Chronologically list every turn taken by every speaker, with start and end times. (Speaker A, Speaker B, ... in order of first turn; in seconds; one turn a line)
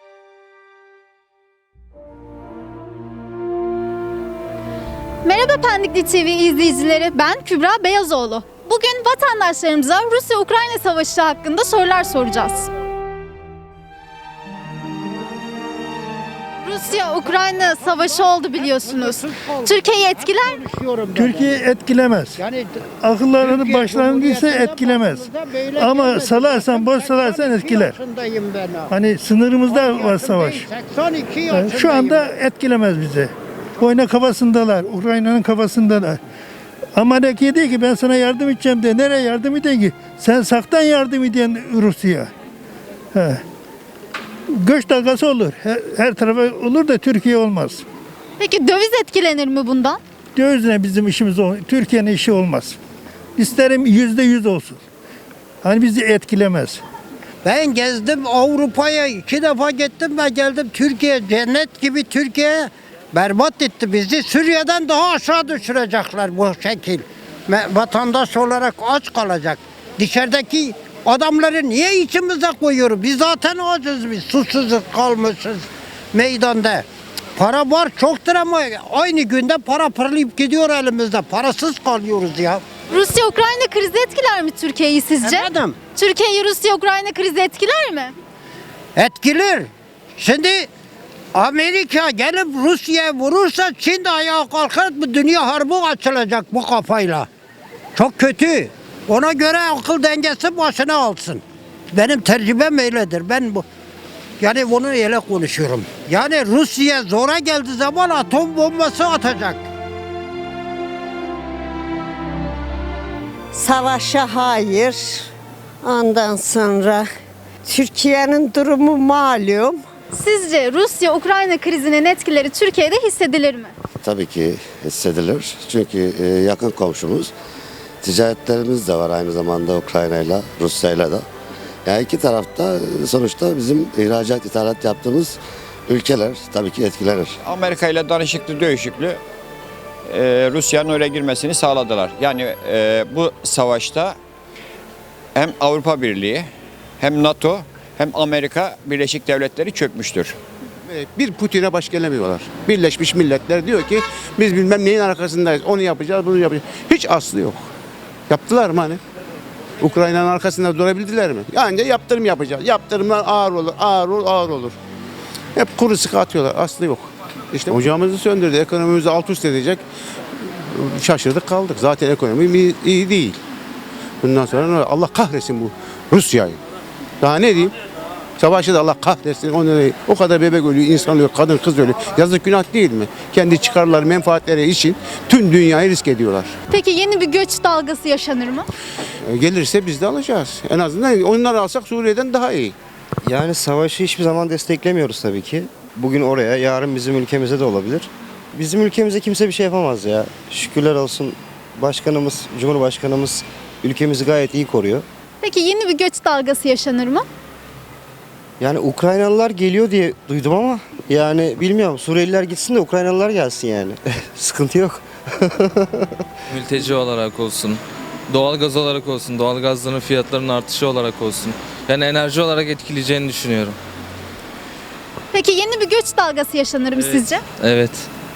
Speaker A: 5.2-12.7
Speaker A: 16.6-20.6
Speaker B: 17.2-21.6
Speaker C: 21.1-22.4
Speaker B: 22.4-22.8
Speaker C: 23.0-28.0
Speaker B: 23.4-28.9
Speaker C: 28.9-30.7
Speaker B: 29.7-32.2
Speaker C: 31.5-36.2
Speaker C: 37.0-42.3
Speaker C: 43.1-43.4
Speaker C: 44.5-47.8
Speaker A: 48.4-50.0
Speaker C: 50.3-52.8
Speaker C: 53.4-54.8
Speaker C: 55.6-56.8
Speaker B: 57.4-76.8
Speaker B: 77.3-82.6
Speaker A: 82.9-88.1
Speaker B: 85.2-85.8
Speaker B: 88.9-90.7
Speaker B: 91.3-97.3
Speaker B: 97.9-103.6
Speaker B: 104.4-109.6
Speaker D: 113.5-115.2
Speaker D: 115.8-117.1
Speaker D: 117.7-119.8
Speaker A: 120.1-123.7
Speaker E: 124.0-127.3
Speaker E: 128.0-131.2
Speaker E: 131.8-137.4
Speaker F: 137.4-139.2
Speaker F: 140.1-144.2
Speaker F: 145.3-146.5
Speaker F: 147.0-150.3
Speaker G: 150.9-157.6
Speaker G: 158.3-159.0
Speaker G: 159.8-164.8
Speaker G: 165.6-169.8
Speaker G: 170.7-173.4
Speaker G: 174.2-176.6
Speaker G: 177.2-177.7
Speaker G: 178.4-186.5
Speaker A: 186.7-188.7
Speaker G: 189.3-192.7
Speaker H: 193.2-205.1
Speaker A: 205.4-207.2
Speaker H: 208.6-216.1
Speaker I: 216.5-223.8
Speaker A: 225.3-227.4
Speaker I: 227.0-228.1